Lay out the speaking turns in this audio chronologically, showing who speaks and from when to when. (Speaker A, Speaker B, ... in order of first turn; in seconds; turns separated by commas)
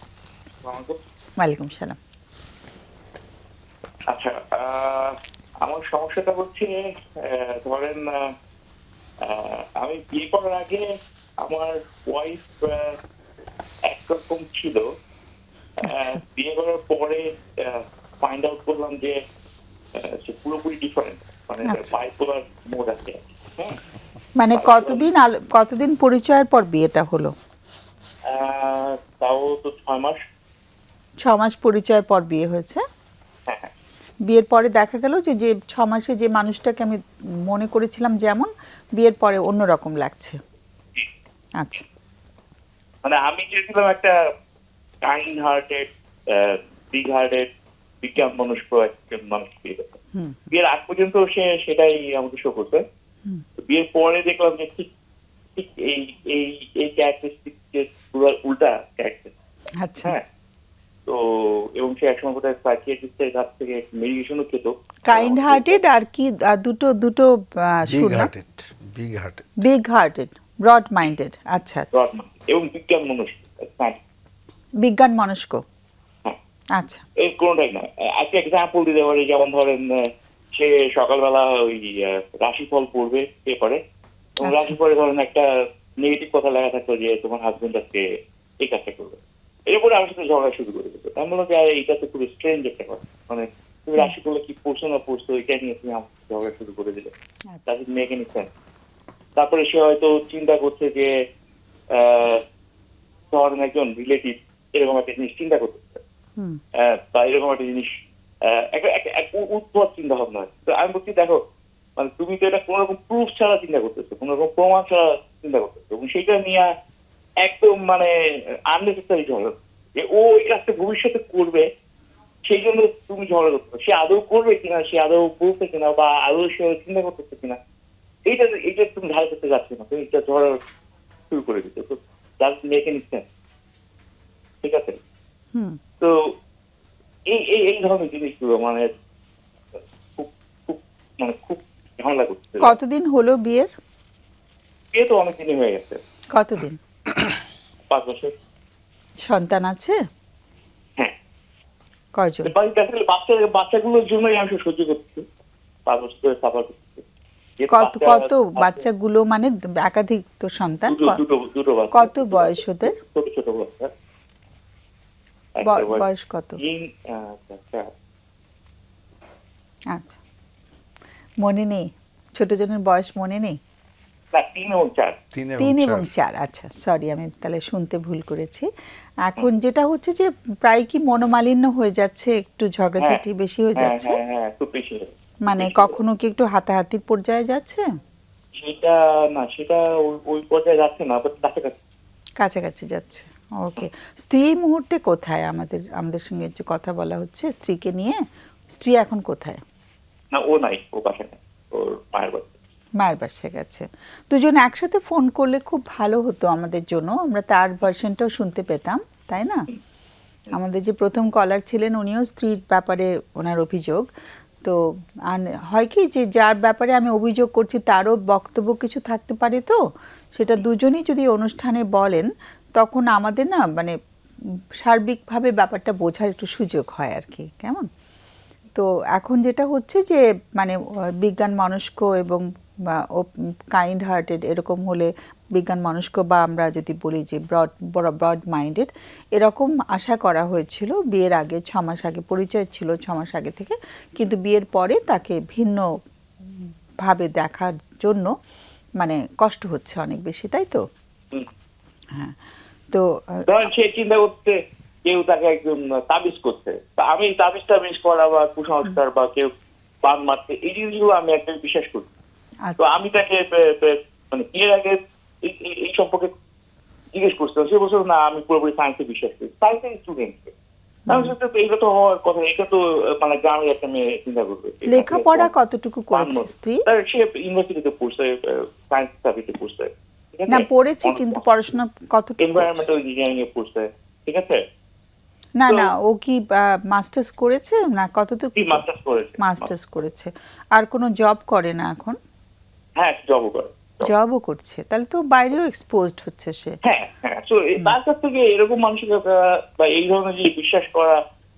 Speaker A: 0.7-1.0, Speaker B: 1.4-2.0, Speaker A: 4.1-8.3, Speaker A: 9.2-10.9, Speaker A: 11.4-13.0, Speaker A: 13.9-14.8, Speaker A: 15.8-19.2, Speaker B: 15.8-16.2, Speaker A: 20.0-23.8, Speaker B: 21.7-21.9, Speaker B: 24.4-27.3, Speaker A: 24.5-25.1, Speaker A: 28.3-30.2, Speaker B: 31.2-32.8, Speaker A: 33.5-33.7, Speaker B: 34.3-37.0, Speaker B: 37.5-40.4, Speaker A: 43.0-44.1, Speaker A: 45.1-47.5, Speaker A: 48.0-50.0, Speaker A: 50.5-52.8, Speaker A: 53.6-54.9, Speaker A: 55.6-59.3, Speaker B: 59.8-60.2, Speaker A: 61.1-65.8, Speaker B: 65.1-68.3, Speaker C: 67.9-69.5, Speaker B: 69.7-71.9, Speaker A: 71.9-74.0, Speaker B: 74.8-75.6, Speaker B: 76.8-77.0, Speaker A: 77.2-79.9, Speaker A: 80.5-83.8, Speaker A: 84.4-85.5, Speaker B: 84.5-84.8, Speaker A: 86.0-88.0, Speaker A: 88.6-97.1, Speaker A: 97.7-98.5, Speaker A: 99.4-101.1, Speaker A: 102.0-102.4, Speaker A: 103.3-106.0, Speaker A: 107.1-107.9, Speaker A: 108.5-111.4, Speaker A: 112.0-116.7, Speaker A: 117.4-118.1, Speaker A: 118.7-121.7, Speaker A: 122.5-127.6, Speaker A: 128.3-130.6, Speaker A: 131.3-133.2, Speaker A: 134.6-135.0, Speaker A: 137.3-138.9, Speaker A: 140.2-142.7, Speaker B: 142.6-143.7, Speaker A: 144.9-146.0, Speaker B: 146.3-146.8, Speaker A: 147.9-148.3, Speaker B: 149.3-150.0, Speaker B: 152.2-152.5, Speaker A: 152.4-155.2, Speaker A: 155.9-157.0, Speaker A: 157.6-158.8, Speaker B: 157.7-161.2, Speaker A: 160.9-163.9, Speaker B: 161.9-162.9, Speaker A: 165.6-166.1, Speaker B: 165.7-166.6, Speaker A: 166.6-167.9, Speaker B: 169.9-170.2, Speaker B: 171.4-171.8, Speaker B: 172.4-173.6, Speaker A: 174.3-175.2, Speaker C: 175.3-176.1, Speaker B: 175.6-178.7, Speaker B: 179.2-184.2, Speaker A: 183.8-186.0, Speaker B: 185.4-187.8, Speaker A: 188.6-191.8, Speaker B: 192.4-198.2, Speaker B: 198.7-199.6, Speaker A: 200.3-202.6, Speaker B: 203.0-209.7, Speaker B: 210.5-214.0, Speaker B: 215.3-219.8, Speaker B: 220.4-222.3, Speaker B: 222.8-223.9, Speaker B: 224.8-227.9, Speaker B: 228.8-245.8, Speaker B: 247.1-248.3, Speaker B: 249.0-250.8, Speaker B: 252.9-253.4, Speaker A: 253.5-259.5, Speaker A: 260.0-262.1, Speaker B: 262.6-262.9, Speaker A: 262.8-266.3, Speaker A: 267.1-270.5, Speaker B: 271.1-271.3, Speaker A: 271.1-275.5, Speaker B: 274.9-276.8, Speaker A: 276.1-281.4, Speaker B: 280.5-282.8, Speaker A: 282.4-284.6, Speaker B: 285.6-288.8, Speaker A: 288.6-289.7, Speaker B: 289.4-292.2, Speaker A: 293.0-294.1, Speaker B: 294.1-296.8, Speaker A: 296.9-301.2